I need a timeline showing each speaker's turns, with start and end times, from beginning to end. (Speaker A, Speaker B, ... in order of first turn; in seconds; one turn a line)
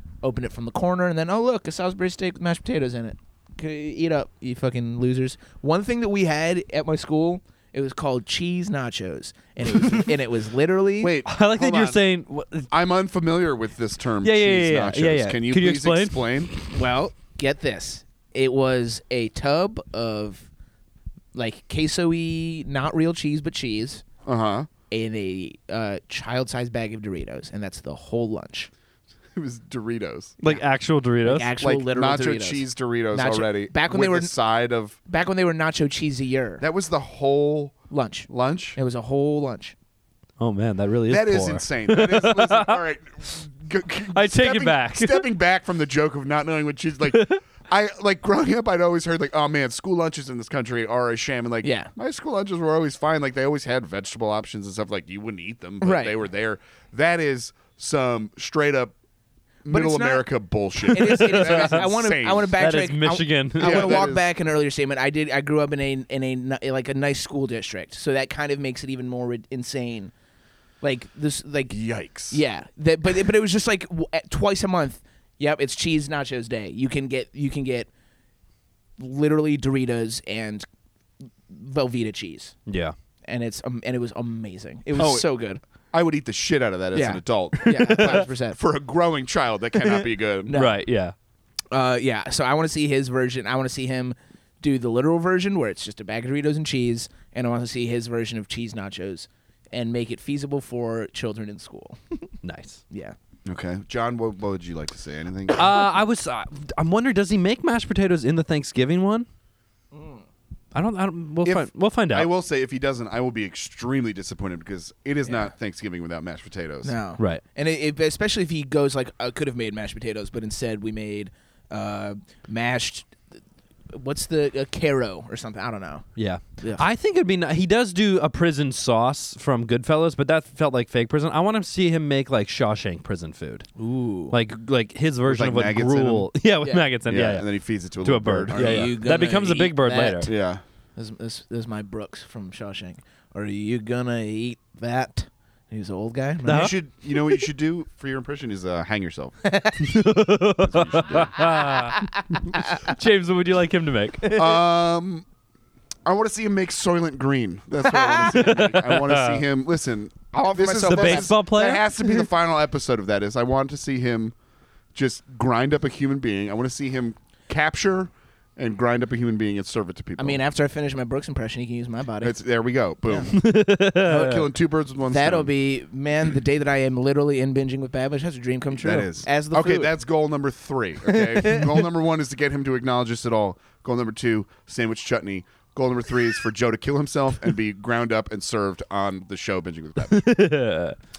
Speaker A: 0.2-11.1
Speaker B: 11.0-12.0
Speaker C: 11.2-12.7
Speaker B: 12.7-16.5
Speaker C: 14.2-16.7
Speaker A: 16.7-20.5
Speaker A: 21.3-24.0
Speaker B: 24.2-24.7
Speaker A: 24.9-28.7
Speaker B: 29.4-30.4
Speaker C: 30.4-31.5
Speaker A: 31.2-34.3
Speaker B: 31.6-35.0
Speaker A: 35.0-36.6
Speaker B: 36.6-37.8
Speaker A: 37.9-39.7
Speaker B: 38.3-38.8
Speaker C: 40.4-42.8
Speaker B: 41.1-58.9
Speaker C: 44.1-45.3
Speaker C: 47.1-47.4
Speaker A: 51.6-51.9
Speaker A: 55.8-56.2
Speaker B: 59.6-62.5
Speaker A: 59.7-60.3
Speaker A: 60.9-70.1
Speaker C: 60.9-61.9
Speaker C: 62.6-64.0
Speaker B: 63.6-64.3
Speaker A: 70.8-71.8
Speaker B: 71.7-72.4
Speaker A: 72.3-77.9
Speaker A: 79.0-80.6
Speaker A: 81.5-82.5
Speaker C: 82.7-82.9
Speaker A: 83.2-85.6
Speaker B: 85.0-85.3
Speaker B: 85.9-90.5
Speaker A: 86.9-88.6
Speaker C: 87.5-88.2
Speaker A: 90.5-90.8
Speaker C: 90.5-91.1
Speaker A: 91.7-102.2
Speaker C: 102.4-102.8
Speaker B: 103.5-105.9
Speaker C: 105.5-109.3
Speaker A: 109.9-110.2
Speaker C: 110.7-112.3
Speaker B: 111.4-116.9
Speaker A: 115.2-115.5
Speaker A: 116.8-123.2
Speaker A: 123.9-126.0
Speaker C: 126.2-133.7
Speaker A: 133.8-134.4
Speaker C: 134.3-140.3
Speaker B: 135.2-136.3
Speaker A: 136.6-136.9
Speaker B: 137.1-138.9
Speaker A: 138.5-140.3
Speaker B: 140.2-140.6
Speaker A: 140.9-146.7
Speaker C: 146.4-146.7
Speaker B: 146.4-149.4
Speaker A: 149.4-149.8
Speaker C: 149.8-154.3
Speaker B: 150.6-151.3
Speaker A: 154.2-154.6
Speaker B: 154.3-155.2
Speaker B: 156.1-164.3
Speaker A: 157.8-158.8
Speaker C: 158.3-159.4
Speaker A: 160.3-161.4
Speaker C: 160.8-161.9
Speaker A: 162.0-162.3
Speaker B: 164.9-170.4
Speaker A: 170.2-172.4
Speaker B: 172.2-173.4
Speaker A: 173.0-173.3
Speaker C: 173.3-174.5
Speaker B: 173.9-175.5
Speaker A: 175.1-179.9
Speaker B: 178.7-190.3
Speaker A: 181.1-181.7
Speaker C: 190.0-190.9